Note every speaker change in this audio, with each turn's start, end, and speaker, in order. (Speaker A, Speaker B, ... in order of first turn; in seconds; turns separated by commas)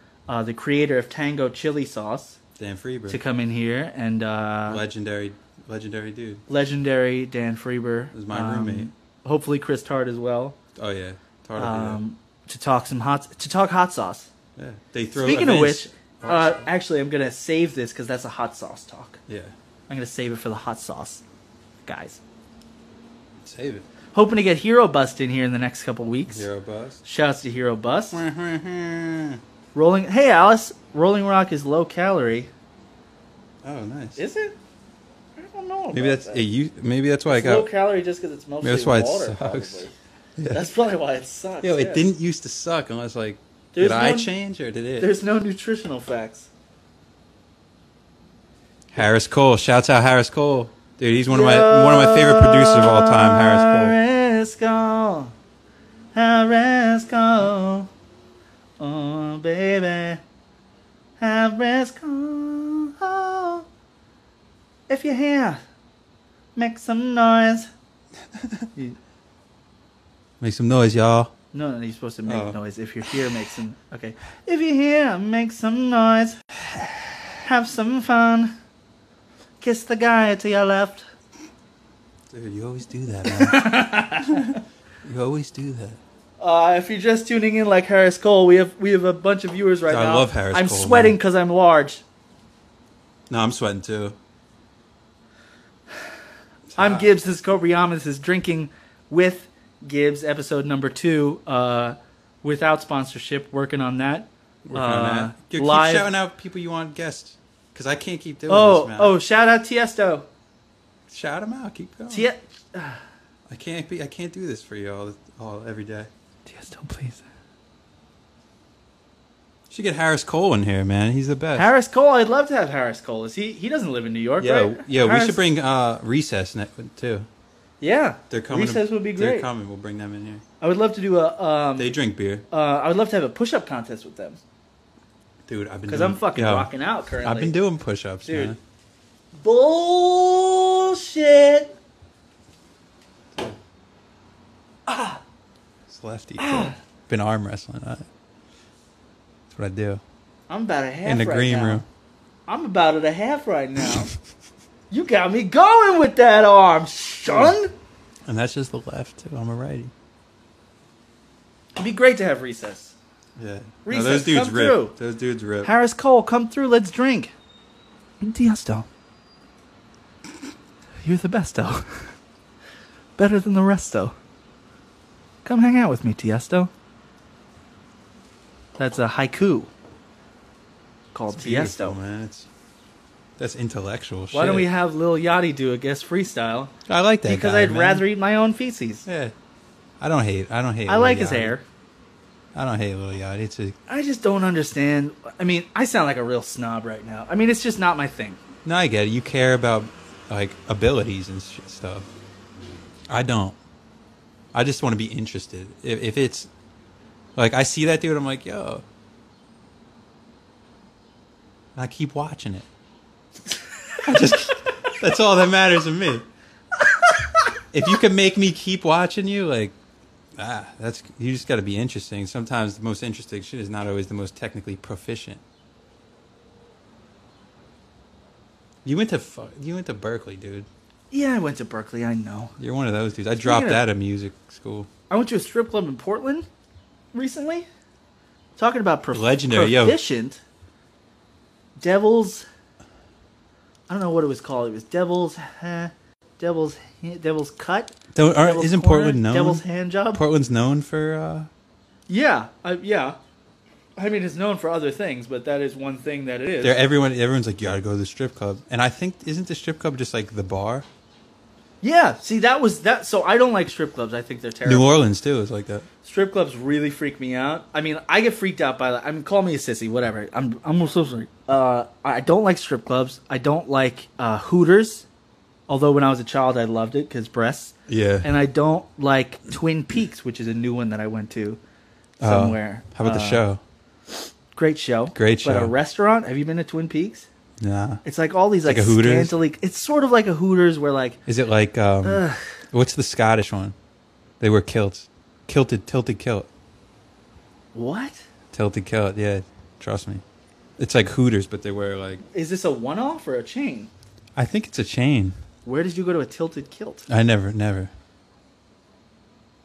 Speaker A: 0.3-2.4, Speaker B: 2.6-3.2, Speaker A: 3.1-4.8, Speaker B: 4.7-6.4, Speaker A: 6.5-10.6, Speaker B: 8.1-8.9, Speaker B: 10.8-12.0, Speaker A: 11.6-14.3, Speaker B: 14.6-16.7, Speaker A: 15.2-19.2, Speaker B: 19.3-19.5, Speaker A: 19.9-21.2, Speaker A: 21.9-22.2, Speaker B: 23.4-23.9, Speaker A: 24.1-26.5, Speaker B: 26.3-27.0, Speaker A: 27.0-28.2, Speaker B: 28.1-29.4, Speaker A: 29.7-32.5, Speaker B: 33.6-34.2, Speaker A: 34.2-34.5, Speaker A: 35.4-36.5, Speaker B: 35.9-37.7, Speaker A: 37.3-39.9, Speaker B: 38.6-40.7, Speaker A: 40.5-42.1, Speaker B: 41.6-45.1, Speaker A: 43.7-44.3, Speaker A: 45.0-46.5, Speaker B: 48.9-54.0, Speaker A: 51.3-55.3, Speaker A: 56.1-57.9, Speaker A: 58.8-60.2, Speaker A: 61.2-63.6, Speaker A: 64.9-65.6, Speaker A: 66.5-67.7, Speaker B: 68.4-68.6, Speaker B: 70.4-71.3, Speaker A: 71.5-78.5, Speaker B: 72.3-72.6, Speaker A: 79.6-81.0, Speaker B: 82.3-86.0, Speaker A: 83.2-84.6, Speaker A: 86.4-92.0, Speaker B: 89.9-91.2, Speaker B: 93.3-94.2, Speaker B: 96.7-97.1, Speaker A: 96.8-106.1, Speaker B: 104.6-109.2, Speaker A: 108.5-110.2, Speaker B: 111.1-112.3, Speaker A: 112.1-113.0, Speaker B: 113.5-116.1, Speaker A: 116.5-117.2, Speaker B: 119.7-121.7, Speaker A: 121.5-125.4, Speaker B: 124.4-127.3, Speaker A: 127.8-129.5, Speaker B: 128.3-130.4, Speaker A: 130.6-131.9, Speaker B: 131.8-132.4, Speaker A: 132.5-134.4, Speaker B: 135.4-138.6, Speaker A: 135.9-137.6, Speaker A: 138.2-138.6, Speaker A: 139.4-141.7, Speaker A: 144.9-145.2, Speaker B: 145.9-148.1, Speaker A: 146.4-146.7, Speaker B: 149.5-150.0, Speaker A: 150.5-151.8, Speaker B: 151.0-151.8, Speaker A: 152.5-154.1, Speaker A: 154.9-157.7, Speaker B: 157.3-157.5, Speaker B: 158.2-159.9, Speaker A: 161.8-162.9, Speaker B: 163.4-165.7, Speaker A: 163.8-164.9, Speaker A: 165.6-167.3, Speaker A: 168.2-168.9, Speaker A: 171.0-172.1, Speaker A: 173.2-174.1, Speaker A: 175.4-176.7, Speaker A: 178.8-179.7, Speaker A: 181.1-182.0, Speaker B: 181.3-182.5, Speaker B: 183.4-184.7, Speaker A: 184.3-186.7, Speaker B: 186.9-188.1, Speaker A: 187.2-189.1, Speaker B: 189.1-189.3, Speaker B: 190.0-191.6, Speaker A: 190.9-191.6, Speaker B: 192.5-193.8, Speaker A: 193.9-198.4, Speaker B: 198.6-202.1, Speaker B: 203.1-203.6, Speaker B: 204.5-206.5, Speaker B: 207.3-208.8, Speaker B: 211.7-212.7, Speaker B: 214.0-216.2, Speaker B: 217.7-219.7, Speaker B: 220.3-225.4, Speaker B: 228.8-230.7, Speaker A: 231.1-232.5, Speaker B: 232.6-234.9, Speaker A: 233.4-233.8, Speaker A: 235.1-236.5, Speaker A: 237.1-237.7, Speaker A: 238.6-240.4, Speaker B: 239.1-240.0, Speaker A: 241.8-242.4, Speaker A: 243.9-250.2, Speaker B: 248.1-251.5, Speaker A: 252.1-253.2, Speaker A: 254.0-256.8, Speaker B: 256.6-260.9, Speaker A: 261.8-264.9, Speaker B: 264.6-265.9, Speaker A: 266.0-275.1, Speaker A: 275.7-281.6, Speaker B: 277.9-278.3, Speaker B: 282.2-283.6, Speaker A: 282.2-283.4, Speaker A: 284.5-287.3, Speaker B: 285.1-285.7, Speaker B: 287.6-288.0, Speaker A: 288.0-291.2, Speaker B: 288.6-289.4, Speaker B: 291.2-293.7, Speaker A: 292.0-292.4, Speaker B: 294.4-296.5, Speaker A: 297.7-298.2, Speaker B: 298.5-300.2, Speaker B: 300.8-302.2, Speaker A: 302.3-303.9, Speaker B: 304.4-305.4, Speaker A: 305.6-307.1, Speaker B: 307.1-307.9